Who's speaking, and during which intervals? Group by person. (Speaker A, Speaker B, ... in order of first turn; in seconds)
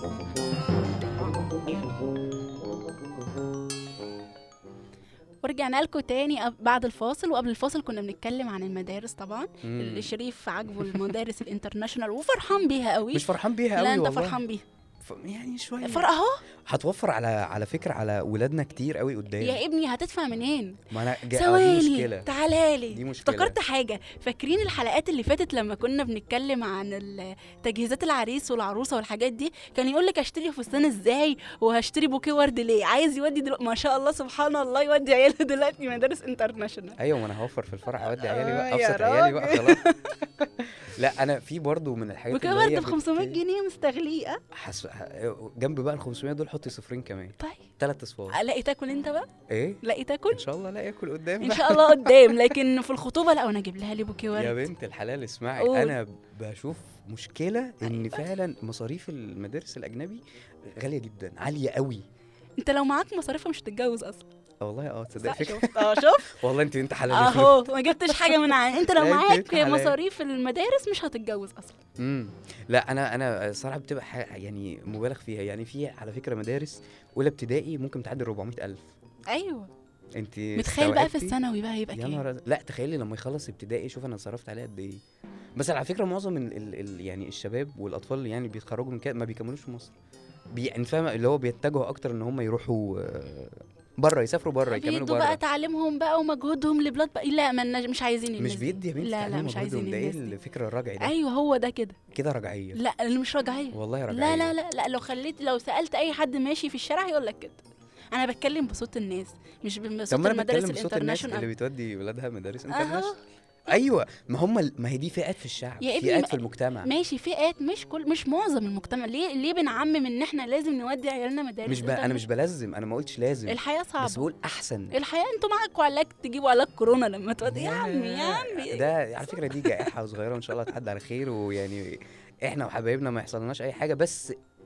Speaker A: 5.4-14.6, 15.8-16.4, 19.4-37.0, 38.0-40.2, 42.3-44.4, 47.4-47.6, 48.3-49.3, 49.8-50.4, 51.4-54.6, 55.6-56.0, 57.8-58.2, 62.6-64.2, 65.2-66.4, 67.1-71.8, 79.3-79.7, 80.5-82.2, 94.7-100.3, 101.0-102.0, 102.7-111.5, 112.7-113.2, 115.8-122.2, 123.5-124.3, 124.9-129.9
Speaker B: 9.6-10.1, 10.8-11.1, 13.1-14.4, 15.0-16.1, 16.7-19.6, 20.9-22.3, 22.9-23.6, 37.0-39.8, 40.8-43.4, 44.5-48.4, 49.5-49.8, 50.3-52.5, 54.3-62.0, 64.6-70.0, 72.0-78.9, 80.2-81.4, 81.9-85.0, 85.6-89.9, 90.5-95.4, 98.4-101.1, 102.1-102.8, 103.7-104.5, 110.1-113.2, 113.7-116.9, 121.7-124.9, 127.4-134.3